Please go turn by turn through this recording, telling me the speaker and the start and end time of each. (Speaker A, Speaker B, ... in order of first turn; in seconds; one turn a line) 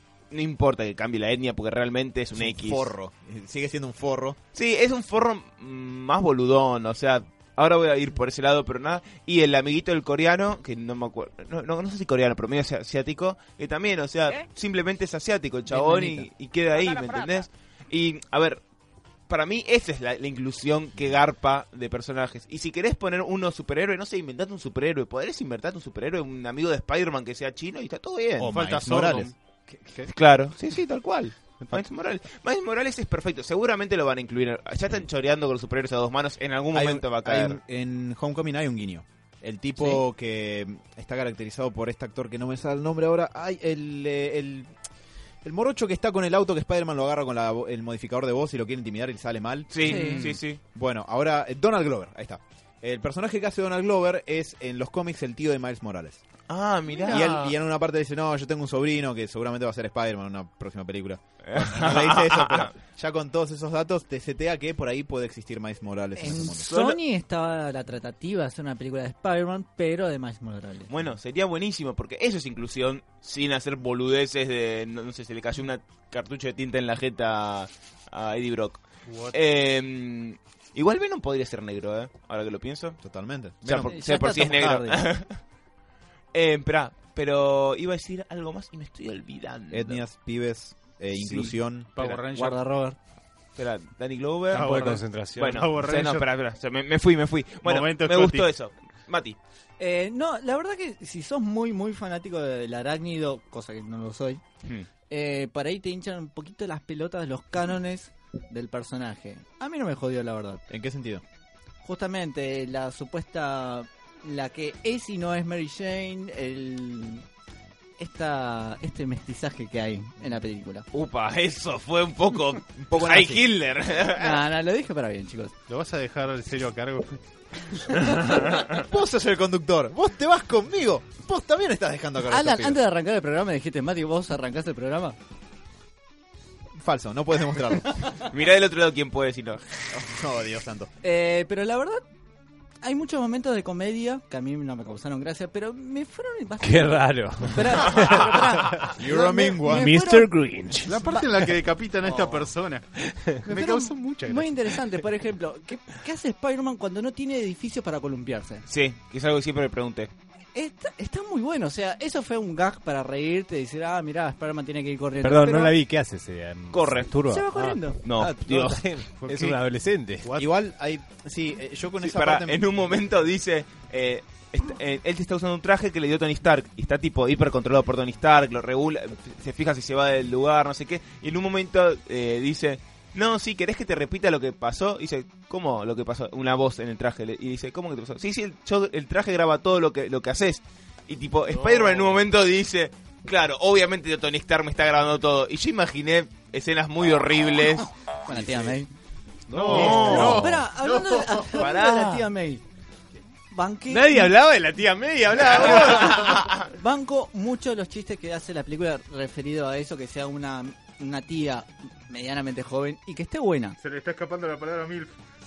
Speaker A: 0.3-2.9
Speaker B: 2.4-4.4
Speaker A: 4.5-18.6
Speaker C: 15.7-16.3
Speaker A: 19.3-28.6
Speaker B: 28.4-29.3
Speaker D: 28.4-30.1
Speaker A: 30.1-37.6
Speaker B: 36.7-44.8
Speaker B: 45.4-56.2
Speaker A: 49.7-50.6
Speaker C: 49.8-50.3
Speaker D: 49.9-50.3
Speaker A: 56.5-57.5
Speaker C: 56.9-57.4
Speaker B: 57.1-66.7
Speaker A: 61.4-62.7
Speaker C: 66.2-70.9
Speaker A: 66.7-67.0
Speaker A: 70.9-83.0
Speaker D: 79.1-79.4
Speaker B: 83.0-83.9
Speaker A: 83.6-85.4
Speaker C: 83.8-85.1
Speaker A: 86.3-90.0
Speaker B: 89.7-91.9
Speaker A: 91.3-92.2
Speaker D: 92.0-92.6
Speaker C: 92.2-93.0
Speaker A: 93.6-99.4
Speaker D: 94.5-96.3
Speaker E: 94.5-95.6
Speaker D: 97.6-98.5
Speaker C: 99.8-104.4
Speaker C: 105.1-110.6
Speaker B: 110.7-111.2
Speaker C: 111.8-117.2
Speaker C: 118.0-120.9
Speaker A: 120.9-124.5
Speaker B: 122.8-123.4
Speaker C: 124.2-125.5
Speaker D: 125.7-128.0
Speaker B: 128.5-132.8
Speaker C: 132.3-135.2
Speaker B: 136.8-138.1
Speaker A: 138.2-139.7
Speaker B: 139.9-140.9
Speaker C: 141.0-142.0
Speaker C: 142.8-150.3
Speaker E: 146.6-148.8
Speaker A: 147.9-148.2
Speaker B: 148.9-150.0
Speaker E: 149.7-151.1
Speaker D: 150.8-152.9
Speaker C: 152.1-152.4
Speaker E: 153.0-153.4
Speaker C: 153.4-158.6
Speaker D: 153.4-154.6
Speaker A: 158.7-160.1
Speaker C: 160.6-165.8
Speaker E: 165.2-170.3
Speaker A: 166.7-167.1
Speaker C: 167.3-168.0
Speaker A: 168.0-168.9
Speaker D: 169.2-169.6
Speaker B: 170.3-172.7
Speaker A: 172.0-197.9
Speaker D: 191.5-192.2
Speaker C: 198.3-198.9
Speaker E: 199.5-200.6
Speaker D: 199.5-201.4
Speaker A: 199.6-200.5
Speaker C: 199.7-202.6
Speaker A: 201.5-202.3
Speaker C: 203.5-204.3
Speaker E: 203.9-206.5
Speaker A: 205.5-206.7
Speaker C: 205.7-213.8
Speaker D: 213.8-215.1